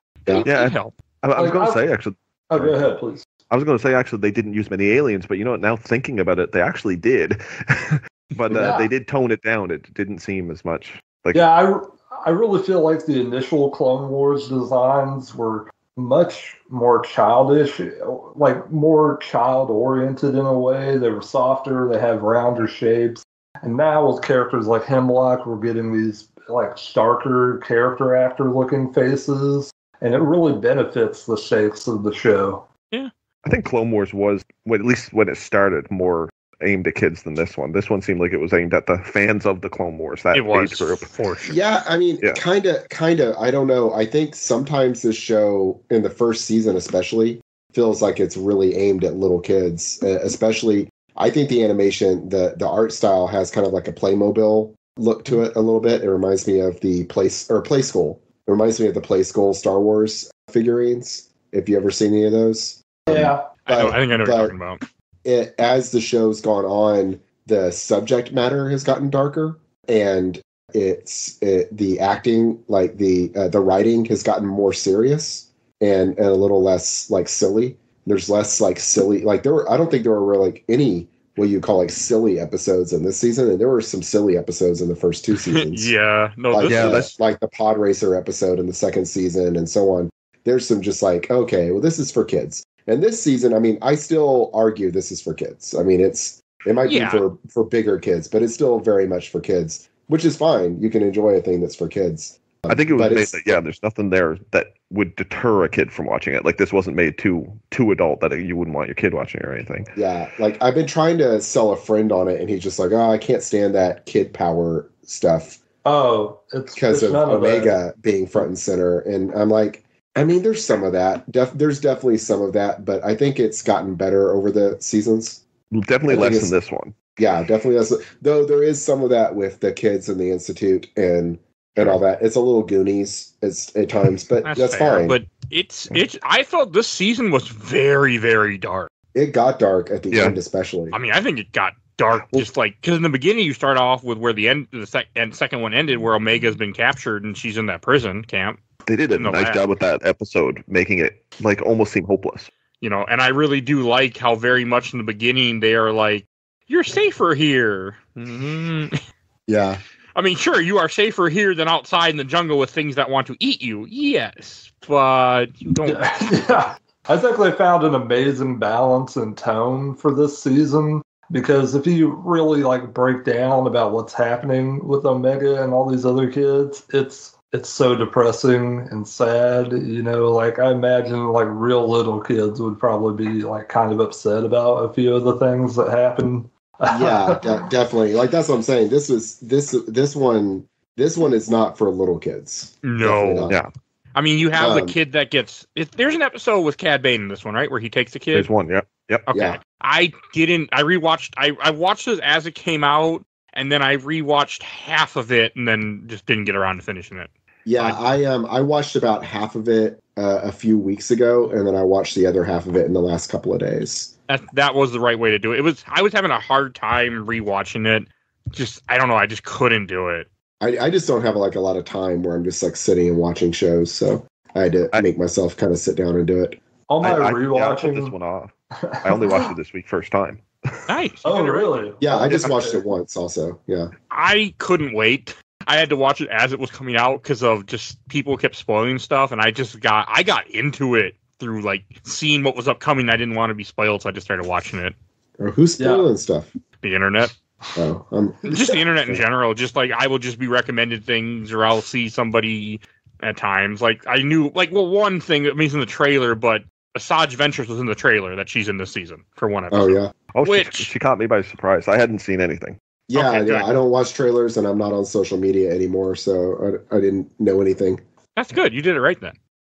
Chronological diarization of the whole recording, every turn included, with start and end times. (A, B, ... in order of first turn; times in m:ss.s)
0:00.3-0:00.9 A
0:00.4-0:02.8 B
0:01.4-0:01.8 C
0:02.5-0:03.2 C
0:03.5-0:11.4 B
0:08.5-0:08.9 C
0:11.3-0:32.6 C
0:33.4-0:41.1 B
0:40.3-0:41.6 A
0:41.4-1:04.6 D
1:03.1-1:03.5 C
1:03.6-1:04.8 A
1:05.2-1:25.9 D
1:25.4-1:27.1 A
1:26.5-1:43.6 D
1:26.7-1:27.1 B
1:36.8-1:37.2 A
1:42.7-1:49.9 B
1:50.0-1:55.6 D
1:55.8-1:57.8 C
1:56.8-2:05.4 D
2:05.7-2:06.9 B
2:06.1-2:06.5 D
2:07.2-2:15.2 D
2:14.4-2:18.9 A
2:19.2-2:21.0 D
2:20.1-2:20.4 B
2:20.9-2:28.6 A
2:28.9-2:32.5 B
2:29.2-2:29.6 A
2:32.8-2:39.0 A
2:39.5-2:39.8 D
2:40.2-2:46.6 A
2:45.9-3:07.7 C
3:06.9-3:13.6 D
3:12.8-3:13.5 A
3:14.2-3:18.5 A
3:14.6-3:15.0 D
3:18.3-3:19.3 B
3:19.3-3:28.0 A
3:19.3-3:19.6 D
3:27.7-3:34.1 D
3:34.3-3:40.3 A
3:40.6-3:46.6 D
3:46.9-3:48.2 C
3:47.0-3:50.9 B
3:48.8-3:49.5 C
3:50.9-3:51.8 A
3:51.2-3:52.8 C
3:52.0-3:53.9 D
3:54.1-4:05.0 A
4:05.4-4:06.5 D
4:05.8-4:06.1 C
4:06.8-4:07.3 A
4:07.8-4:08.5 D
4:08.4-4:20.9 A
4:19.7-4:20.1 D
4:20.3-4:22.8 B
4:23.1-4:28.0 D
4:23.1-4:23.7 A
4:28.4-4:29.4 A